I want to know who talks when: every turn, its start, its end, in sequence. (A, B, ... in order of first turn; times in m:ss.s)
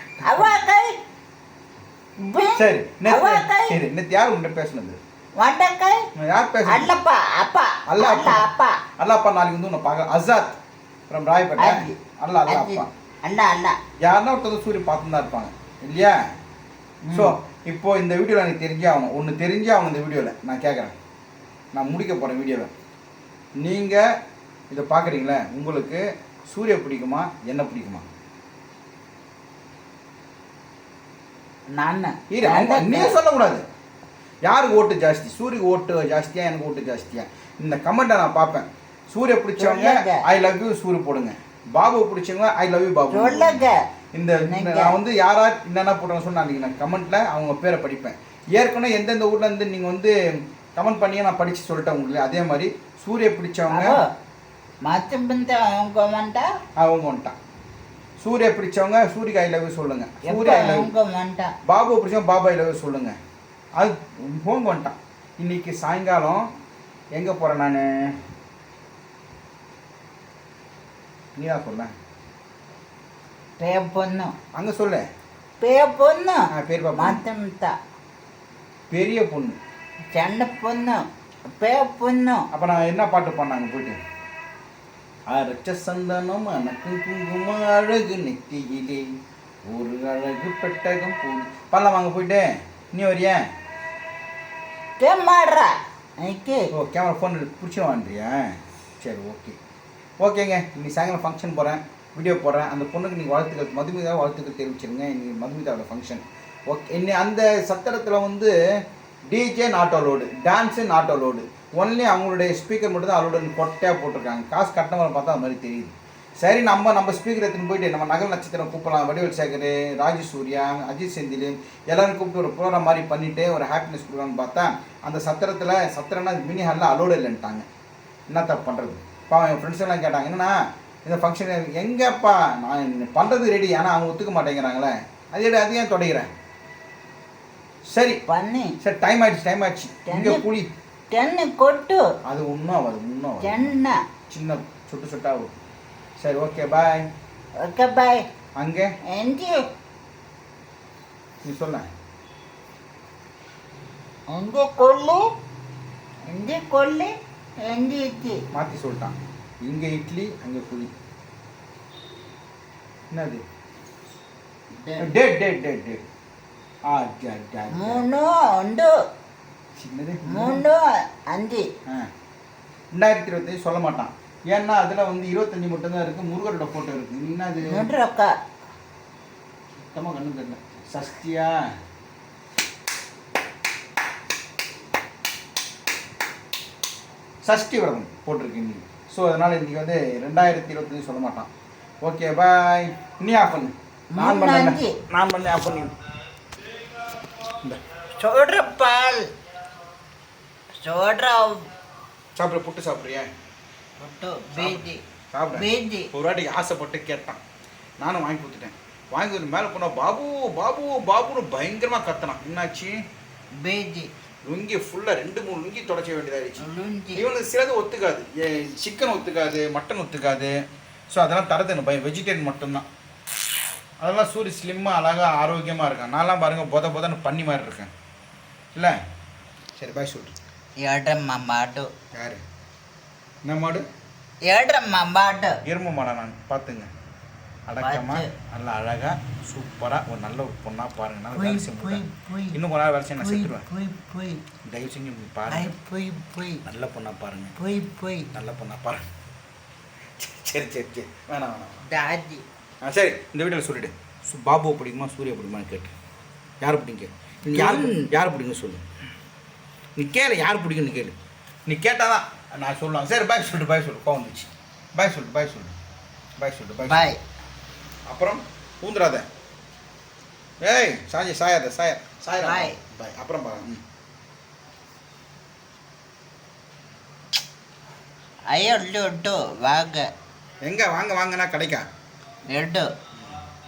0:00.2-0:00.5 A
0:00.2-0:00.9 B
0:02.2-0:03.7 B
0:02.5-0:05.0 A
0:05.4-0:06.0 B
0:06.2-0:06.9 A
0:06.7-0:08.8 B
0:07.9-0:08.4 A
0:09.0-0:10.6 A
0:11.1-0:12.9 A
0:11.6-0:12.0 B
0:12.5-0:13.8 B
0:14.0-0:16.2 A
0:17.0-0:17.3 B
0:17.1-0:20.9 A
0:21.8-0:22.7 A
0:23.6-0:24.0 A
0:24.7-0:28.1 A
0:31.7-0:33.2 B
0:32.3-0:33.6 A
0:34.4-0:50.1 A
0:39.6-0:40.2 B
0:43.1-0:43.8 B
0:44.4-0:45.0 B
0:50.8-0:54.0 A
0:53.7-0:54.0 B
0:54.8-0:56.5 B
0:56.8-0:57.3 A
0:58.2-1:00.9 A
1:00.2-1:01.5 B
1:01.6-1:03.2 A
1:03.8-1:06.4 A
1:07.1-1:08.1 A
1:11.4-1:11.9 A
1:13.6-1:14.3 B
1:14.6-1:15.0 A
1:15.6-1:16.4 B
1:16.5-1:17.2 A
1:17.0-1:17.7 B
1:18.9-1:19.6 A
1:20.1-1:21.0 B
1:21.5-1:22.5 B
1:22.5-1:24.0 A
1:25.3-1:29.1 A
1:29.7-1:33.4 A
1:35.0-1:36.7 B
1:36.7-1:38.4 A
1:39.0-1:39.6 A
1:40.2-1:48.5 A
1:49.3-2:07.7 A
2:08.3-2:10.5 A
2:11.0-2:16.3 A
2:17.9-2:18.2 A
2:18.3-2:18.8 B
2:18.8-2:20.7 A
2:20.1-2:20.4 B
2:21.1-2:22.0 B
2:22.2-2:23.7 A
2:23.4-2:24.0 B
2:24.3-2:25.5 A
2:26.2-2:27.1 A
2:27.6-2:28.2 B
2:28.6-2:28.9 A
2:29.1-2:29.6 B
2:31.4-2:31.8 A
2:34.3-2:35.3 B
2:36.3-2:37.1 B
2:37.6-2:38.4 B
2:38.5-2:40.9 A
2:43.1-2:43.4 A
2:44.7-2:45.1 B
2:45.0-2:46.0 A
2:46.9-2:48.0 A
2:47.8-2:48.9 B
2:49.8-2:50.6 A
2:50.3-2:51.6 B
2:52.9-2:57.9 A
2:57.6-2:58.3 B
2:59.8-3:01.5 A
3:07.4-3:11.5 A
3:12.0-3:15.9 A
3:14.1-3:15.0 B
3:17.4-3:17.8 A
3:18.1-3:19.3 B
3:20.8-3:21.6 B
3:22.4-3:23.3 A
3:24.0-3:25.0 B
3:24.5-3:27.4 A
3:25.5-3:26.1 B
3:28.0-3:33.0 A
3:33.6-3:34.1 B
3:34.4-3:36.6 A
3:36.6-3:37.2 B
3:37.2-3:40.5 A
3:41.1-3:42.8 A
3:44.0-3:47.9 A
3:49.8-3:50.3 A
3:50.8-3:51.9 B
3:52.1-3:52.4 A
3:53.4-3:53.8 A
3:54.4-3:55.6 B
3:55.6-3:56.9 A
3:57.7-4:03.6 A
3:57.8-3:58.3 B
4:01.3-4:02.6 B
4:03.2-4:04.4 B
4:04.7-4:05.7 A
4:05.5-4:06.6 B
4:06.6-4:07.5 A
4:07.6-4:08.3 B
4:08.3-4:09.0 A
4:10.2-4:11.8 A
4:11.8-4:12.4 B
4:12.8-4:15.9 A
4:16.6-4:18.8 A
4:17.5-4:17.9 B
4:20.0-4:21.2 A
4:21.7-4:25.8 A
4:26.4-4:27.1 A
4:26.8-4:27.2 B
4:28.1-4:29.2 A
4:30.6-4:33.8 A
4:32.4-4:32.8 B
4:38.5-4:40.1 B
4:40.6-4:41.8 A
4:42.5-4:42.9 B